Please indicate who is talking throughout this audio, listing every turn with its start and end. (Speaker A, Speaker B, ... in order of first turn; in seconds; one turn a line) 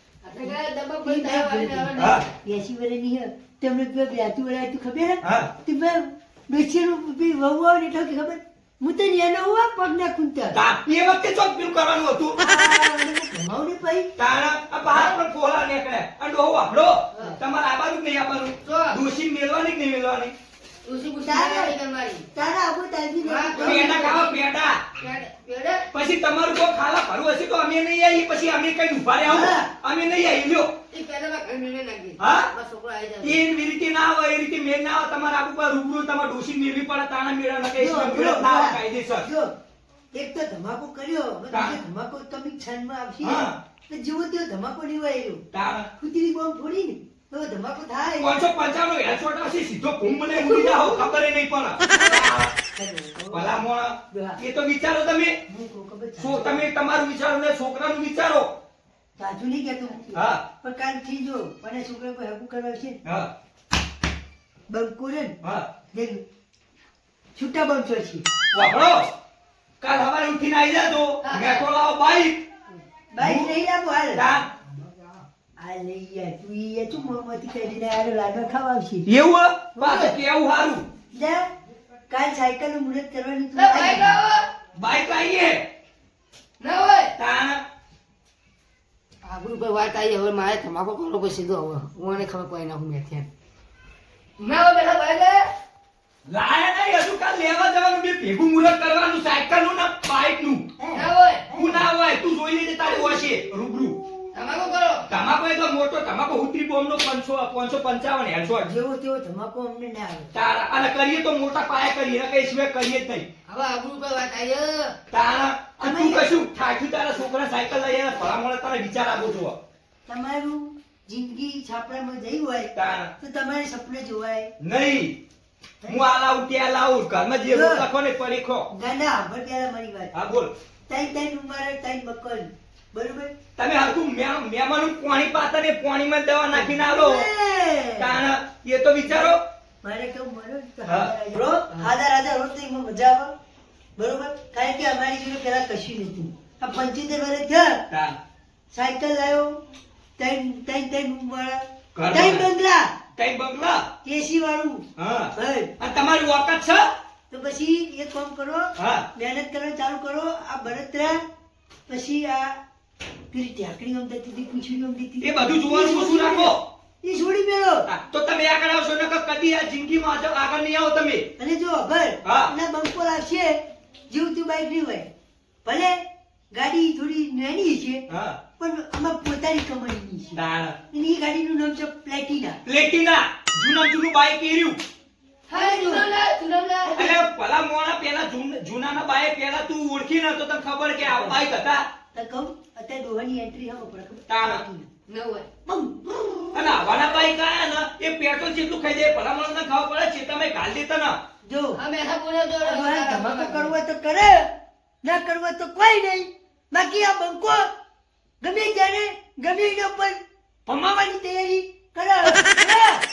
Speaker A: 0.2-2.2
Speaker B: 0.4-10.6
Speaker C: 2.0-2.2
Speaker C: 5.2-5.5
Speaker C: 10.5-12.4
Speaker B: 12.4-14.1
Speaker C: 14.2-20.3
Speaker A: 14.9-15.2
Speaker A: 17.1-17.4
Speaker A: 18.6-19.0
Speaker A: 20.8-22.3
Speaker B: 21.2-21.7
Speaker B: 22.3-24.1
Speaker A: 23.2-24.4
Speaker C: 23.6-24.9
Speaker A: 25.0-25.9
Speaker C: 25.9-30.7
Speaker B: 29.2-29.7
Speaker A: 30.9-33.4
Speaker C: 32.2-32.5
Speaker C: 33.2-39.3
Speaker B: 37.8-39.5
Speaker B: 40.1-45.5
Speaker C: 41.5-41.8
Speaker C: 43.2-43.6
Speaker C: 45.5-45.9
Speaker B: 46.0-48.4
Speaker C: 48.2-52.5
Speaker B: 50.2-51.0
Speaker B: 51.9-53.6
Speaker C: 53.3-55.4
Speaker B: 54.1-54.4
Speaker B: 55.5-56.7
Speaker C: 56.2-58.5
Speaker B: 59.2-63.0
Speaker C: 60.1-60.4
Speaker C: 63.0-63.3
Speaker B: 64.7-65.4
Speaker B: 65.9-66.2
Speaker B: 67.3-68.2
Speaker C: 68.5-69.1
Speaker C: 69.8-72.4
Speaker A: 71.2-71.7
Speaker B: 73.1-74.2
Speaker C: 73.2-73.5
Speaker C: 74.1-74.5
Speaker B: 75.6-79.1
Speaker C: 79.0-80.8
Speaker B: 79.7-80.2
Speaker B: 81.1-81.5
Speaker B: 82.1-84.1
Speaker A: 83.5-84.5
Speaker C: 84.7-85.6
Speaker A: 86.6-87.1
Speaker C: 87.2-87.6
Speaker A: 89.2-93.3
Speaker A: 94.4-95.5
Speaker C: 96.3-100.7
Speaker B: 100.8-101.9
Speaker A: 100.9-101.5
Speaker C: 101.5-104.0
Speaker A: 104.3-105.1
Speaker C: 105.1-108.7
Speaker B: 108.6-110.3
Speaker C: 110.3-113.3
Speaker A: 113.5-115.0
Speaker C: 115.1-119.6
Speaker B: 115.8-116.3
Speaker B: 120.0-124.5
Speaker C: 122.7-123.1
Speaker C: 124.6-125.2
Speaker B: 125.8-126.1
Speaker C: 125.9-128.7
Speaker B: 127.5-127.9
Speaker B: 128.7-130.1
Speaker C: 130.1-130.5
Speaker B: 130.9-133.3
Speaker C: 133.6-137.3
Speaker B: 136.5-138.2
Speaker C: 138.0-139.4
Speaker B: 139.1-143.3
Speaker C: 140.9-141.1
Speaker B: 144.0-147.9
Speaker C: 147.9-148.2
Speaker B: 148.7-149.6
Speaker B: 150.2-152.9
Speaker C: 151.9-152.5
Speaker C: 153.2-153.9
Speaker B: 154.0-155.7
Speaker C: 155.0-156.9
Speaker B: 157.3-161.2
Speaker C: 158.8-159.1
Speaker B: 161.9-162.6
Speaker B: 163.3-167.9
Speaker C: 165.2-166.7
Speaker C: 167.9-171.3
Speaker B: 171.4-175.1
Speaker C: 172.2-172.5
Speaker B: 175.6-178.1
Speaker C: 178.1-178.4
Speaker B: 178.6-182.6
Speaker C: 180.3-180.8
Speaker C: 182.6-184.8
Speaker B: 185.5-186.1
Speaker A: 185.5-187.1
Speaker B: 186.9-187.2
Speaker C: 186.9-191.8
Speaker B: 191.0-191.4
Speaker B: 192.1-194.9
Speaker C: 194.3-194.6
Speaker A: 195.1-195.5
Speaker B: 195.7-196.8
Speaker C: 196.5-201.2
Speaker B: 201.4-201.8
Speaker A: 201.8-203.7
Speaker B: 202.6-204.5
Speaker B: 205.0-207.7
Speaker B: 208.4-213.0